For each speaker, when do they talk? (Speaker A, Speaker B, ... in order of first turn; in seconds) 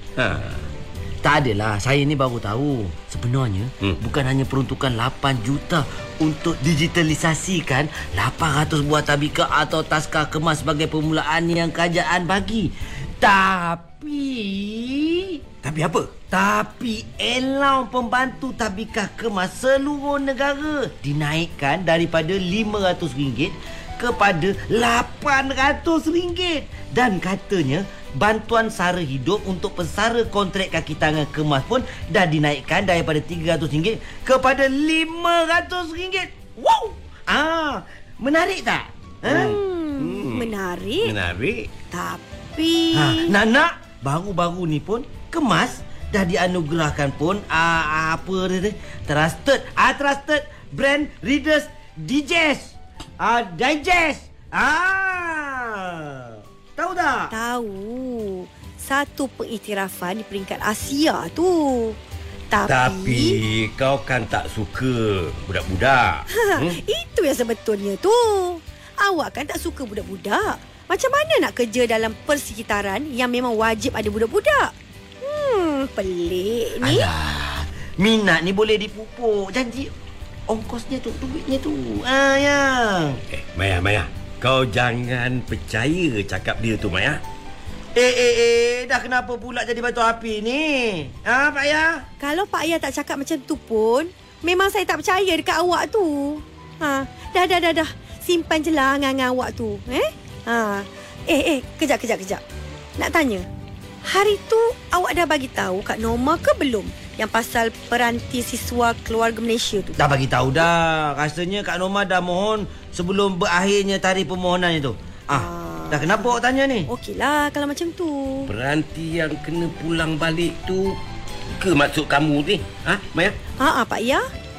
Speaker A: 0.2-0.7, 15.6-16.1, 39.3-41.7, 62.7-66.8, 77.2-77.6, 83.3-87.2, 118.5-121.0, 121.5-123.4
Speaker B: 1.2-15.4, 16.3-39.6, 42.9-57.3, 76.8-77.1, 78.0-79.9, 80.5-83.2, 87.9-92.0, 110.0-116.9
Speaker C: 39.2-41.1, 41.9-43.3, 57.3-62.0, 62.5-63.4, 66.3-77.1, 92.2-102.4, 103.0-103.5, 104.0-110.0, 115.3-116.3, 116.9-118.5, 123.6-124.2